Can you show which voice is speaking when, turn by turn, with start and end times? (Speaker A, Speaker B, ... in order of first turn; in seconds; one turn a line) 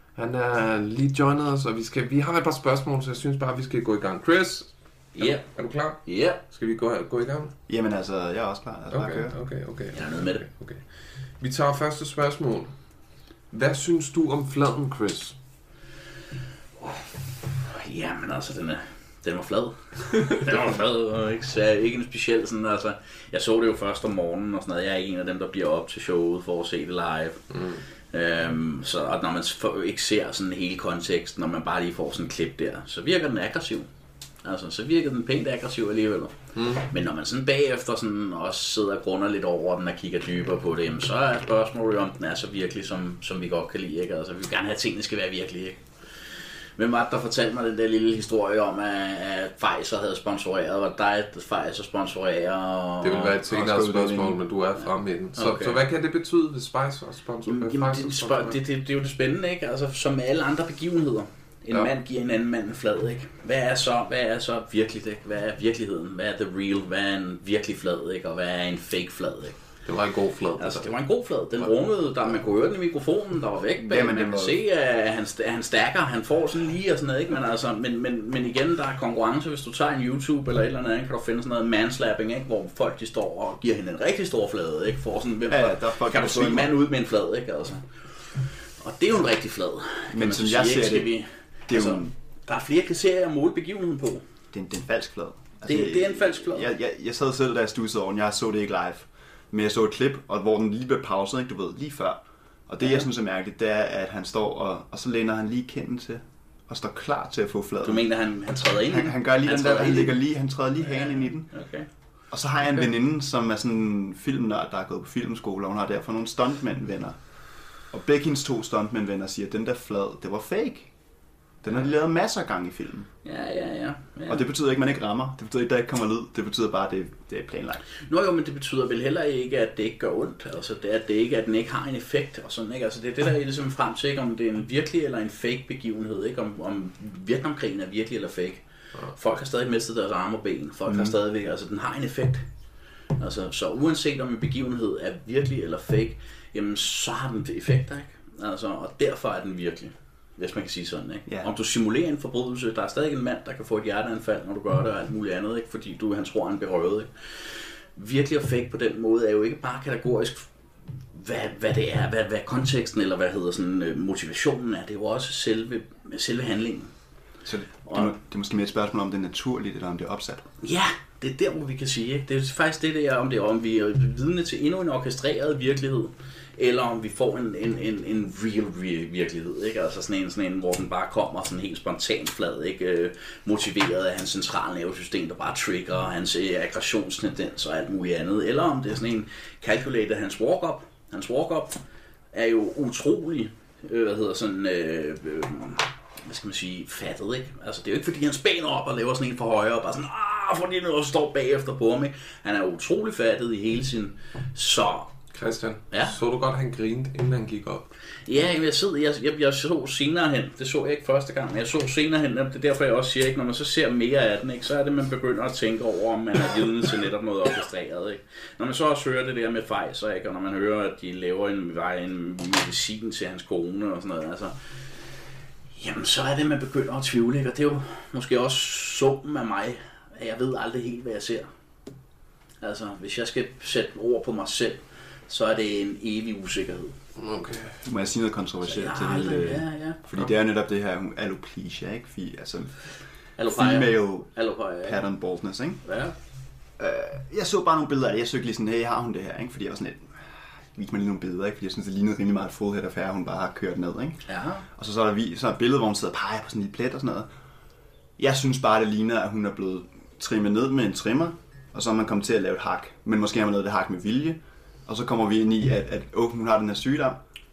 Speaker A: 0.1-7.5
Speaker B: 5.1-5.5
Speaker B: 6.0-6.4
Speaker C: 7.7-9.4
Speaker A: 8.9-10.8
Speaker B: 9.9-10.4
Speaker A: 11.4-12.7
Speaker A: 13.5-15.4
Speaker B: 16.8-33.9
Speaker B: 34.4-53.4
Speaker A: 53.0-58.6
Speaker C: 53.5-54.4
Speaker B: 55.3-55.8
Speaker B: 57.4-69.6
Speaker A: 69.8-71.0
Speaker B: 70.6-94.2
Speaker C: 73.8-74.6
Speaker C: 85.5-86.7
Speaker C: 90.1-91.1
Speaker C: 91.7-92.1
Speaker C: 94.5-108.1
Speaker B: 95.6-96.7
Speaker B: 102.8-103.1
Speaker B: 107.8-110.2
Speaker C: 108.6-111.5
Speaker B: 110.8-111.9
Speaker C: 112.3-117.2
Speaker C: 117.9-120.9
Speaker C: 121.6-123.1
Speaker B: 123.2-124.5
Speaker C: 124.3-127.8
Speaker B: 128.1-142.4
Speaker C: 140.9-141.1
Speaker B: 143.2-157.1
Speaker B: 157.9-160.5
Speaker B: 161.1-166.9
Speaker C: 167.4-170.5
Speaker B: 167.8-168.1
Speaker B: 170.6-191.8
Speaker B: 192.3-205.2
Speaker A: 205.3-207.8
Speaker B: 205.9-206.2
Speaker B: 208.2-224.5
Speaker B: 225.7-231.5
Speaker B: 232.6-237.0
Speaker A: 237.2-237.8
Speaker C: 237.8-242.9
Speaker B: 238.6-240.0
Speaker B: 243.4-245.1
Speaker C: 243.5-245.8
Speaker B: 245.8-246.1
Speaker C: 246.8-257.3
Speaker B: 254.3-254.6
Speaker C: 258.2-267.2